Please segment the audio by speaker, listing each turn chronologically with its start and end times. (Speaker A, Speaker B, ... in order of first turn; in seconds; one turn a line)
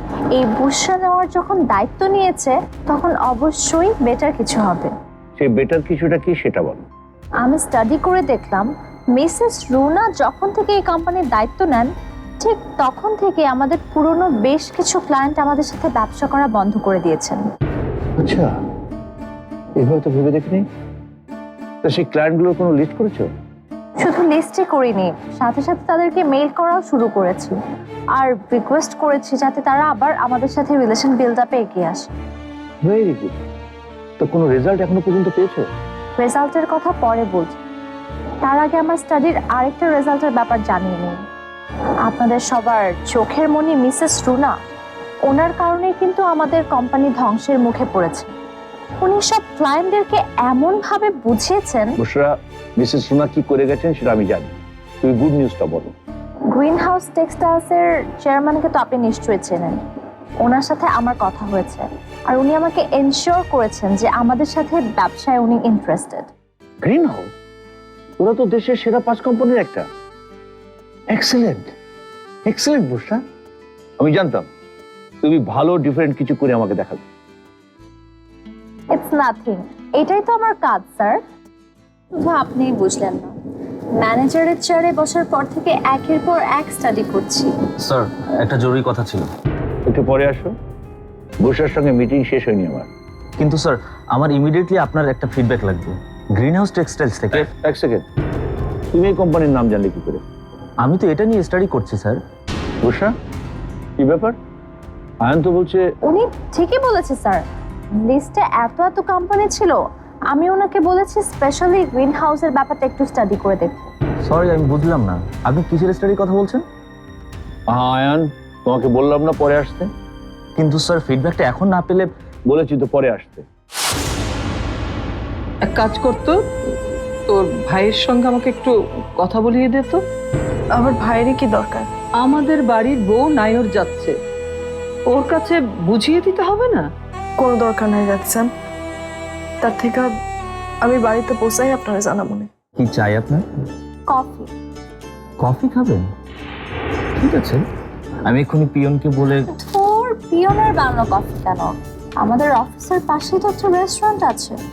Speaker A: 0.3-4.9
Speaker B: 5.4-6.8
Speaker A: 7.4-11.9
Speaker A: 12.4-17.4
Speaker B: 18.2-18.4
Speaker B: 19.8-20.6
Speaker B: 21.8-23.2
Speaker A: 24.0-27.5
Speaker A: 28.1-32.1
Speaker B: 32.8-33.3
Speaker B: 34.2-35.6
Speaker A: 36.2-37.6
Speaker A: 38.4-41.2
Speaker A: 42.0-44.6
Speaker A: 45.3-48.3
Speaker A: 49.0-51.9
Speaker B: 52.0-54.5
Speaker B: 55.0-55.9
Speaker A: 56.5-59.8
Speaker A: 60.4-66.3
Speaker B: 66.8-67.3
Speaker B: 68.2-69.8
Speaker B: 71.1-71.6
Speaker B: 72.5-73.2
Speaker B: 74.0-74.5
Speaker B: 75.2-77.0
Speaker A: 78.9-81.2
Speaker A: 82.1-83.3
Speaker A: 84.0-87.5
Speaker C: 87.8-89.3
Speaker B: 89.9-90.5
Speaker B: 91.4-92.9
Speaker C: 93.4-97.5
Speaker B: 97.3-98.0
Speaker B: 98.9-100.2
Speaker C: 100.8-102.2
Speaker B: 102.8-103.1
Speaker B: 104.0-104.3
Speaker B: 105.2-105.8
Speaker A: 106.0-107.4
Speaker A: 108.0-113.9
Speaker C: 114.2-116.6
Speaker B: 117.7-119.9
Speaker C: 120.6-122.1
Speaker B: 122.5-123.4
Speaker D: 125.7-126.4
Speaker D: 127.3-130.0
Speaker E: 130.8-131.9
Speaker D: 132.2-134.1
Speaker D: 135.1-136.8
Speaker E: 137.4-138.5
Speaker E: 139.6-140.1
Speaker E: 140.8-142.5
Speaker C: 142.8-143.4
Speaker A: 144.1-144.5
Speaker C: 145.4-146.0
Speaker C: 147.2-147.6
Speaker C: 148.2-149.5
Speaker A: 149.5-154.6